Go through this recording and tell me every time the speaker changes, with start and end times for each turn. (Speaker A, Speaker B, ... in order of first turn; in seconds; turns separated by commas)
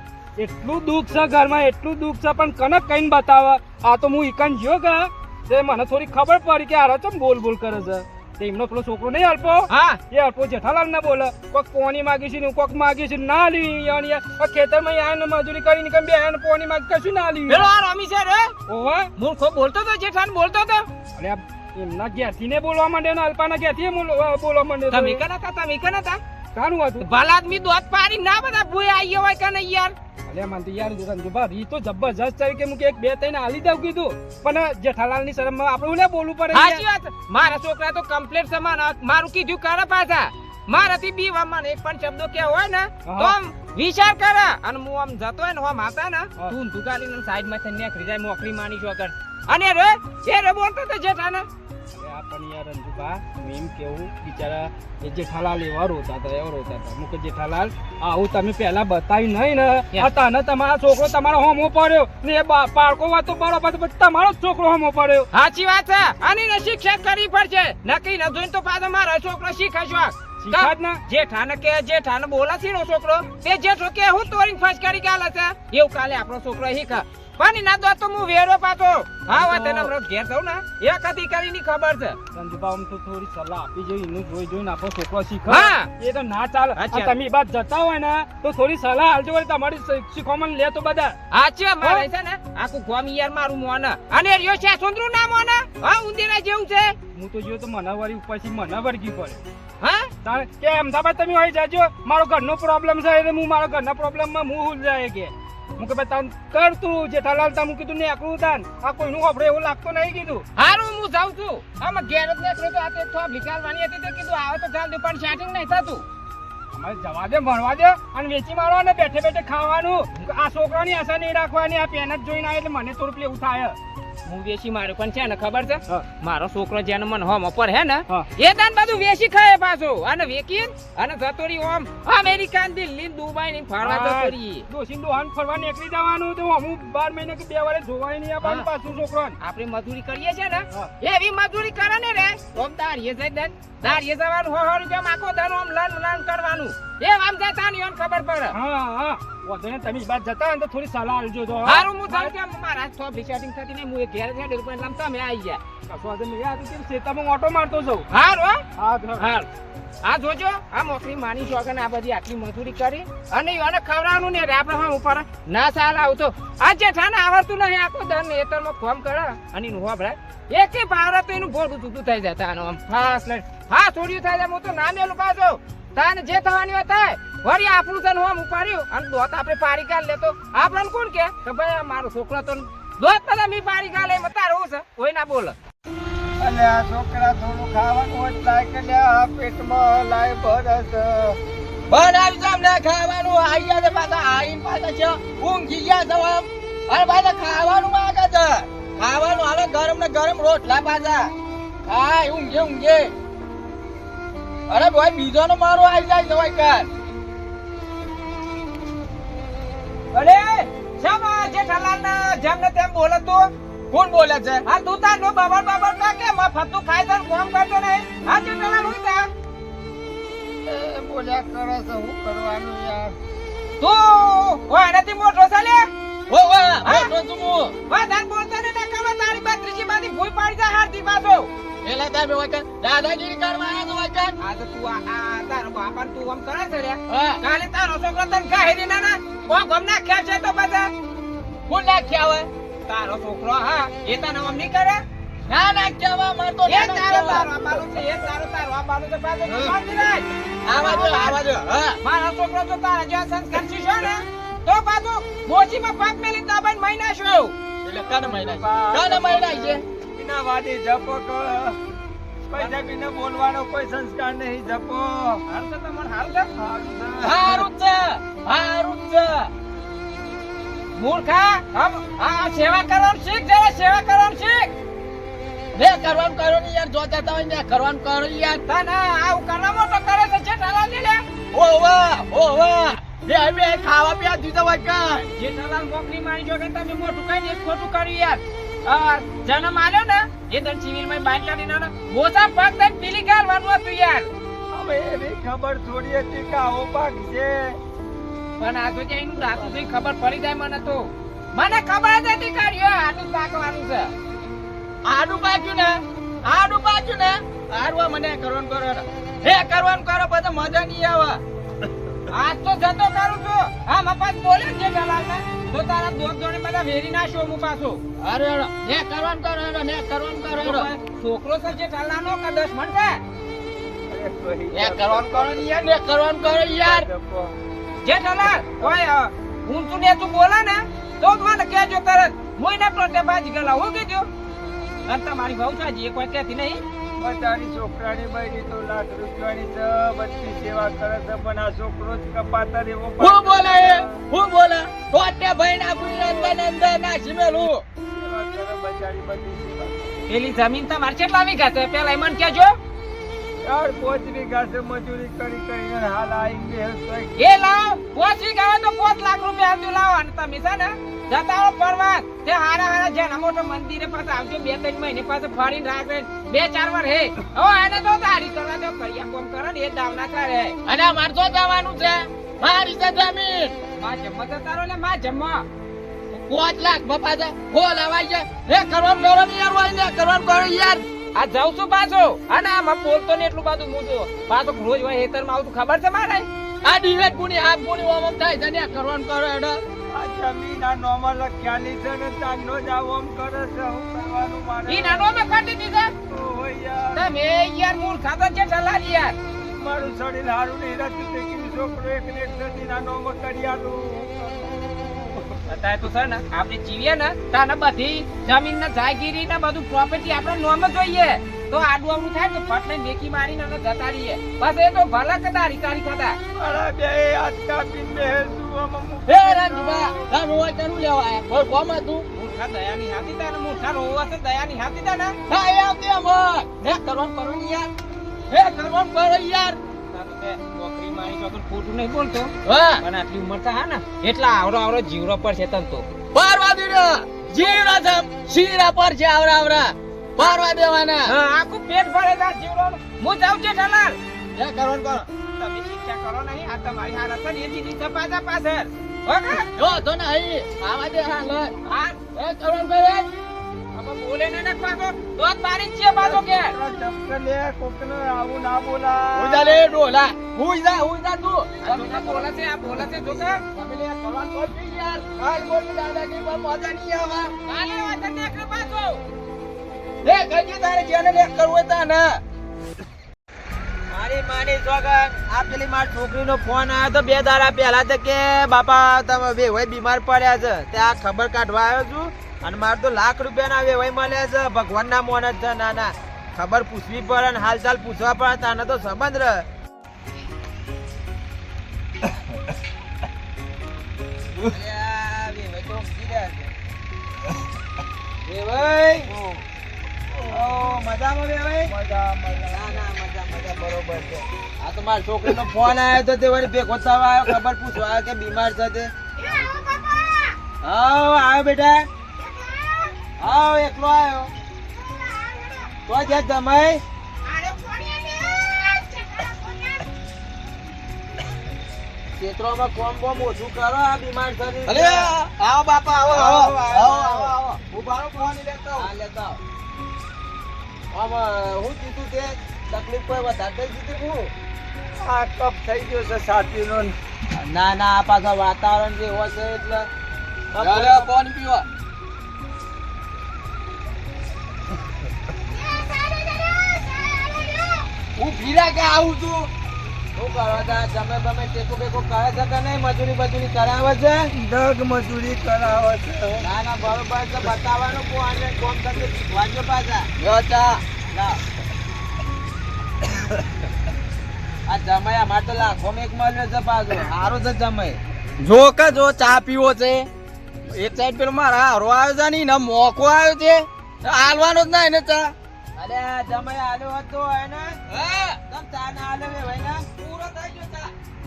Speaker A: 0.4-17.7, Speaker B: 9.7-10.0, Speaker B: 17.5-18.5, Speaker A: 18.7-19.1, Speaker B: 19.2-20.9, Speaker A: 21.2-25.2, Speaker B: 24.9-26.2, Speaker A: 26.5-27.1, Speaker B: 27.0-29.9, Speaker A: 30.3-36.8, Speaker B: 36.5-51.5, Speaker A: 43.0-43.4, Speaker A: 51.9-65.3, Speaker B: 65.3-82.2, Speaker A: 70.4-71.0, Speaker A: 79.3-79.9, Speaker A: 82.3-91.2, Speaker B: 85.5-85.9, Speaker B: 86.8-87.1, Speaker B: 91.3-97.0, Speaker A: 97.1-99.4, Speaker B: 99.8-100.1, Speaker A: 100.2-110.4, Speaker B: 110.5-116.0, Speaker A: 116.7-123.8, Speaker B: 124.2-134.6, Speaker A: 133.8-139.3, Speaker B: 139.4-148.5, Speaker A: 148.5-152.3, Speaker B: 151.6-155.6, Speaker A: 155.9-158.1, Speaker B: 158.1-158.6, Speaker A: 158.8-159.3, Speaker B: 159.2-159.5, Speaker B: 160.0-185.6, Speaker C: 186.4-191.4, Speaker D: 191.9-201.3, Speaker D: 201.8-203.1, Speaker D: 204.7-206.9, Speaker B: 210.1-213.5, Speaker D: 213.9-214.6, Speaker B: 214.7-219.3, Speaker C: 220.6-223.1, Speaker B: 223.8-225.9, Speaker D: 226.3-227.7, Speaker B: 226.8-227.1, Speaker B: 227.9-231.5, Speaker D: 231.8-234.4, Speaker B: 234.4-240.9, Speaker D: 237.1-237.4, Speaker D: 241.7-242.5, Speaker B: 242.9-245.0, Speaker D: 245.5-247.8, Speaker B: 246.7-251.4, Speaker D: 249.5-249.7, Speaker D: 250.6-252.0, Speaker B: 252.0-257.5, Speaker D: 257.8-259.8, Speaker C: 258.0-261.8, Speaker C: 262.5-265.4, Speaker B: 265.5-266.5, Speaker C: 266.6-267.6, Speaker D: 267.2-269.5, Speaker B: 270.9-274.7, Speaker D: 275.7-278.6, Speaker B: 278.7-281.2, Speaker D: 281.5-285.3, Speaker B: 285.3-294.3, Speaker C: 294.7-297.8, Speaker B: 298.6-304.1, Speaker D: 305.0-311.4, Speaker B: 312.3-318.0, Speaker D: 318.2-320.9, Speaker B: 320.6-323.2, Speaker C: 324.1-325.7, Speaker D: 324.7-327.1, Speaker C: 326.4-327.5, Speaker B: 328.0-334.3, Speaker B: 335.1-336.8, Speaker C: 337.2-344.1, Speaker D: 343.2-347.8, Speaker C: 345.9-346.6, Speaker C: 348.1-350.2, Speaker B: 350.3-352.8, Speaker C: 353.6-357.3, Speaker B: 357.4-370.8, Speaker D: 370.9-373.8, Speaker B: 374.0-375.6, Speaker D: 376.3-381.0, Speaker B: 381.3-386.5, Speaker D: 386.8-389.8, Speaker C: 390.1-395.3, Speaker B: 394.9-396.1, Speaker C: 396.3-397.2, Speaker B: 397.1-399.4, Speaker C: 399.8-405.6, Speaker B: 405.7-416.4, Speaker C: 416.6-420.3, Speaker D: 419.2-422.3, Speaker B: 422.3-425.4, Speaker D: 425.5-427.9, Speaker D: 428.5-429.8, Speaker B: 430.1-436.1, Speaker D: 432.6-433.0, Speaker D: 436.3-441.3, Speaker B: 437.5-437.8, Speaker B: 441.2-444.2, Speaker D: 444.5-445.3, Speaker B: 445.6-449.7, Speaker D: 449.8-451.7, Speaker B: 451.8-452.2, Speaker D: 452.3-453.3, Speaker B: 453.9-456.7, Speaker C: 456.2-460.0, Speaker D: 459.3-462.5, Speaker B: 461.8-463.6, Speaker D: 463.0-467.5, Speaker B: 467.6-469.2, Speaker D: 470.2-472.4, Speaker E: 474.1-489.6, Speaker E: 494.6-496.7, Speaker E: 498.4-499.3, Speaker C: 499.3-499.6, Speaker C: 500.3-500.8, Speaker E: 500.5-501.9, Speaker C: 501.9-503.0, Speaker E: 502.7-509.1, Speaker B: 509.4-510.5, Speaker E: 510.8-512.1, Speaker B: 512.7-513.1, Speaker E: 513.4-514.5, Speaker B: 515.2-515.9, Speaker E: 516.1-517.0, Speaker B: 517.4-520.1, Speaker E: 522.4-525.3, Speaker D: 524.9-529.1, Speaker E: 526.3-527.6, Speaker E: 528.9-529.6, Speaker E: 531.1-534.5, Speaker C: 535.2-537.1, Speaker E: 537.5-540.1, Speaker E: 540.7-541.3, Speaker D: 540.8-541.9, Speaker B: 545.8-548.1, Speaker D: 548.4-549.7, Speaker E: 550.3-554.5, Speaker C: 554.5-556.6, Speaker E: 556.6-560.3, Speaker D: 560.4-561.0, Speaker E: 561.3-561.6, Speaker E: 564.9-568.2, Speaker D: 568.6-570.2, Speaker D: 570.9-575.5, Speaker E: 576.0-578.0, Speaker D: 578.1-578.6, Speaker E: 578.7-580.0, Speaker D: 580.2-581.1